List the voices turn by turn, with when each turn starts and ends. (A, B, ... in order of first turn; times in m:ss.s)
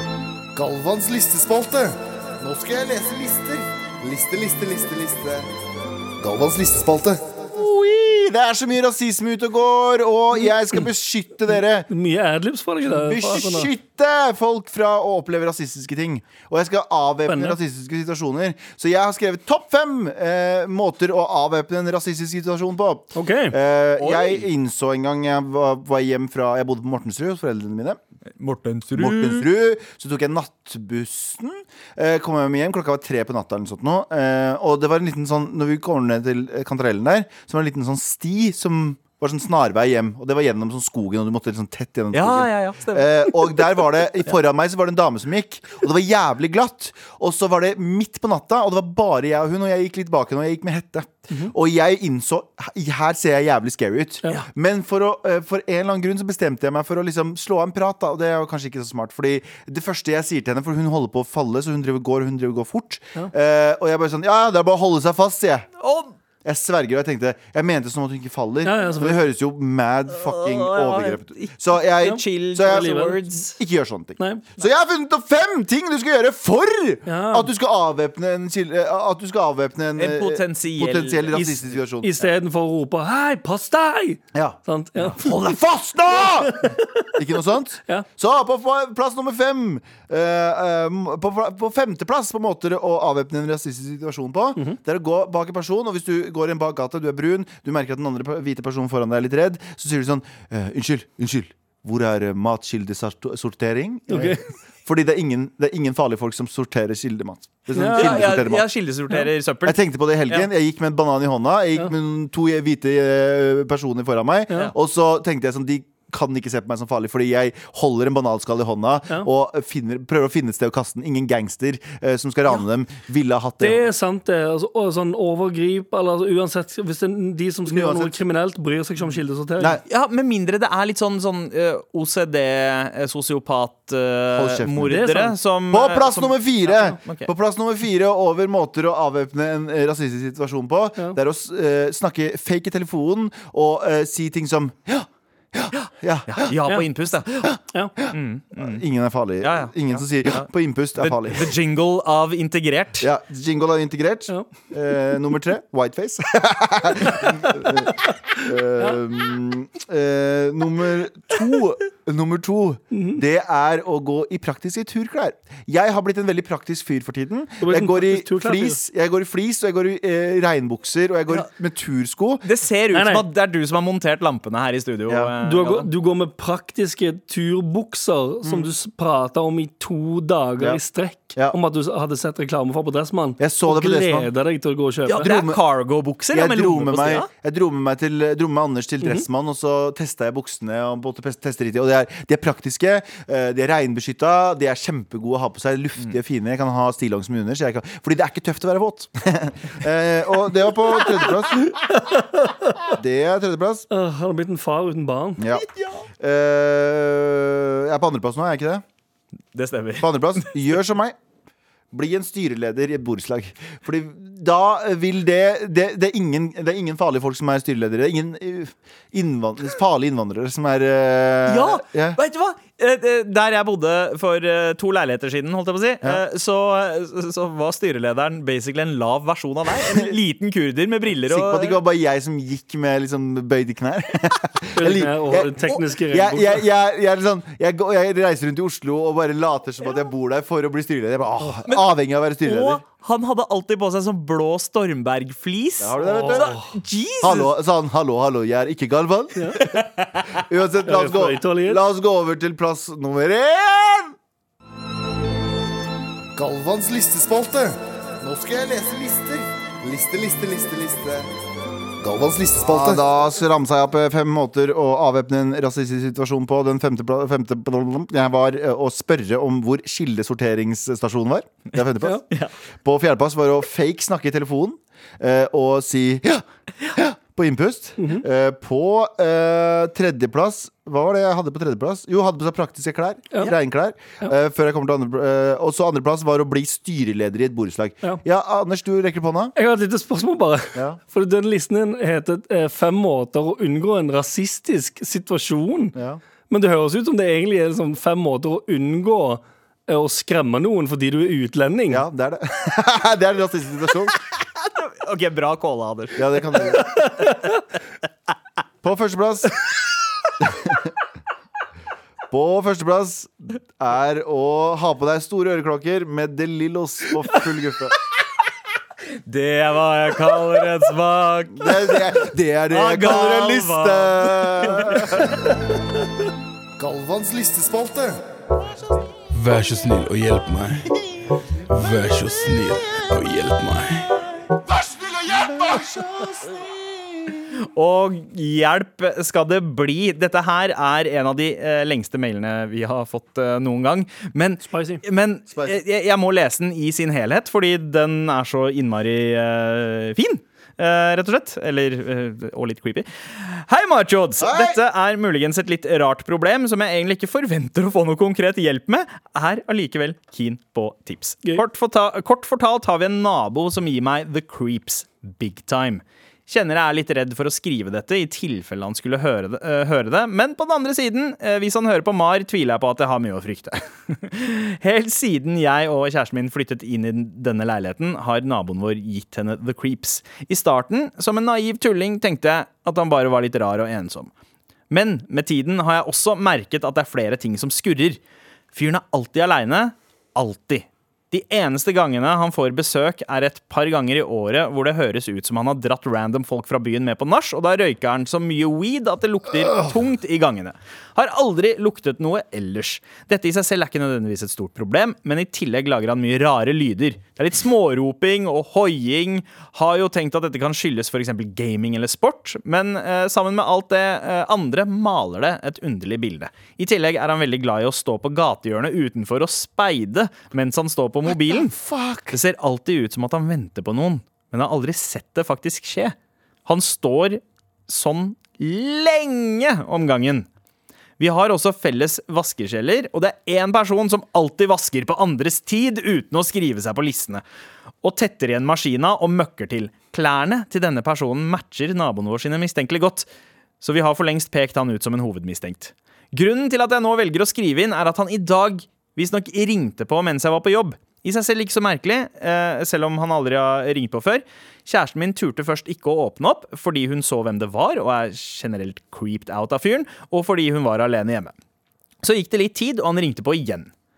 0:00.6-0:05.5 A
0:06.2-0:07.4 A
0:07.4-0:11.9 B
0:10.3-0:10.9 C
0:11.9-0:13.7 C
0:12.8-0:28.0 B
0:17.3-0:17.6 C
0:23.1-0:23.6 C
0:24.0-0:24.4 D
0:28.4-0:29.5 D
0:28.9-1:05.7 B
0:42.1-0:43.8 D
1:05.8-1:06.1 D
1:06.4-1:22.1 B
1:08.6-1:09.2 C
1:10.1-1:13.5 D
1:12.0-1:13.4 C
1:14.2-1:14.4 C
1:17.0-1:17.5 C
1:20.0-1:21.3 D
1:21.3-1:25.6 C
1:24.3-1:48.6 B
1:26.1-1:27.1 C
1:44.1-1:44.4 C
1:47.7-1:48.4 C
1:47.9-1:50.5 D
1:49.6-2:03.9 B
2:03.6-2:09.8 C
2:07.6-2:08.2 B
2:09.8-2:17.3 D
2:14.3-2:14.9 B
2:14.9-2:15.3 C
2:15.7-2:26.4 B
2:25.7-2:27.5 D
2:28.0-2:31.5 B
2:28.1-2:28.8 D
2:29.4-2:33.1 D
2:33.0-2:52.4 B
2:42.9-2:43.2 C
2:47.6-2:48.8 C
2:52.4-2:55.9 D
2:52.9-2:53.2 C
2:55.4-3:05.3 C
3:03.4-3:04.3 B
3:05.1-3:07.3 D
3:05.2-3:05.6 B
3:06.3-3:21.7 B
3:21.9-3:22.9 C
3:22.9-3:23.8 B
3:23.9-3:25.4 C
3:25.4-3:25.7 B
3:26.2-3:28.8 B
3:29.5-3:30.5 D
3:30.0-3:31.2 B
3:31.9-3:42.2 B
3:41.5-3:51.8 D
3:49.9-3:50.1 B
3:51.3-3:55.5 B
3:54.7-3:56.6 C
3:56.1-4:02.8 B
4:02.4-4:07.5 D
4:05.8-4:06.5 B
4:06.0-4:06.7 C
4:07.2-4:09.6 B
4:09.3-4:09.6 C
4:09.6-4:10.4 D
4:10.3-4:14.2 B
4:10.8-4:11.8 C
4:16.4-4:21.3 A
4:22.0-4:23.0 A
4:22.6-4:32.2 B
4:32.8-4:49.5 B
4:38.0-4:38.2 C
4:49.6-4:55.9 C
4:50.7-4:51.0 B
4:55.9-4:56.2 B
4:56.5-5:02.0 C
5:01.9-5:04.2 B
5:04.4-5:06.8 D
5:06.1-5:07.0 B
5:07.0-5:07.4 C
5:08.8-5:09.6 B
5:10.4-5:10.9 B
5:12.3-5:17.9 B
5:19.2-5:22.1 D
5:21.5-5:25.4 B
5:22.7-5:25.4 D
5:26.8-5:28.2 A
5:29.3-5:30.8 E
5:31.8-5:33.9 E
5:34.8-5:36.0 A
5:35.3-5:37.3 B
5:37.7-6:24.3 D
5:44.6-5:45.0 C
5:45.5-5:45.8 B
5:54.4-5:54.8 B
6:24.9-6:28.2 D
6:28.7-7:01.7 D
7:01.3-7:02.4 B
7:02.3-7:06.1 D
7:06.6-7:10.5 D
7:11.2-7:17.4 D
7:18.0-7:23.2 D
7:23.8-7:41.5 D
7:42.2-7:43.9 D